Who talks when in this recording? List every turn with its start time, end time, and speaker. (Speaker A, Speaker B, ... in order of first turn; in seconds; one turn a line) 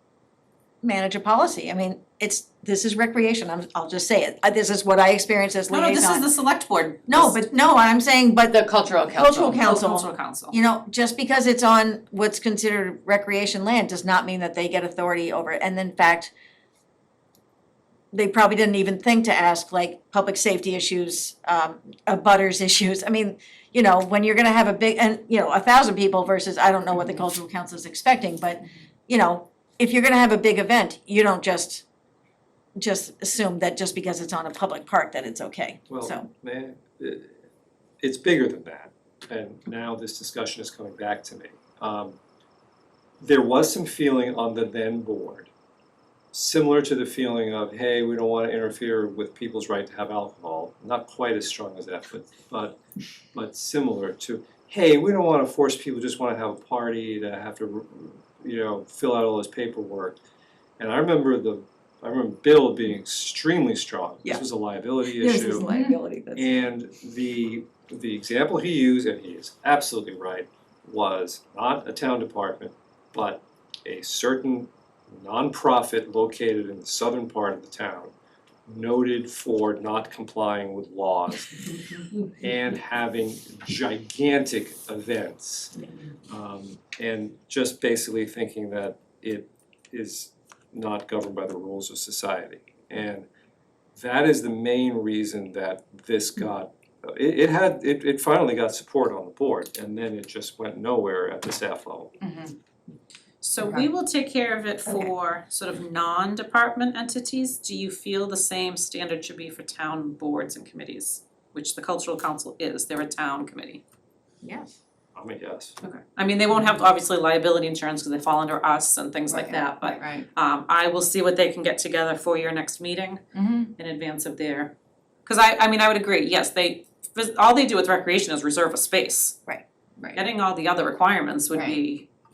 Speaker A: 0.8-6.3
Speaker B: 5.7-7.4
Speaker A: 7.1-8.6
Speaker C: 8.5-9.6
Speaker A: 9.2-16.3
Speaker B: 9.6-10.6
Speaker A: 18.1-31.8
Speaker A: 32.8-36.2
Speaker D: 35.9-37.4
Speaker D: 38.0-42.2
Speaker D: 43.2-45.5
Speaker D: 46.3-52.8
Speaker D: 53.3-60.2
Speaker D: 60.8-65.7
Speaker A: 65.1-66.5
Speaker C: 65.7-66.0
Speaker D: 66.3-78.1
Speaker D: 78.7-81.6
Speaker D: 82.4-85.8
Speaker D: 86.3-93.2
Speaker D: 94.0-102.1
Speaker C: 102.2-102.5
Speaker B: 103.4-113.8
Speaker A: 114.4-114.7
Speaker D: 115.2-115.8
Speaker B: 115.8-123.2
Speaker C: 119.3-120.2
Speaker C: 123.3-123.7
Speaker B: 123.8-124.7
Speaker B: 125.3-129.4
Speaker B: 130.1-132.1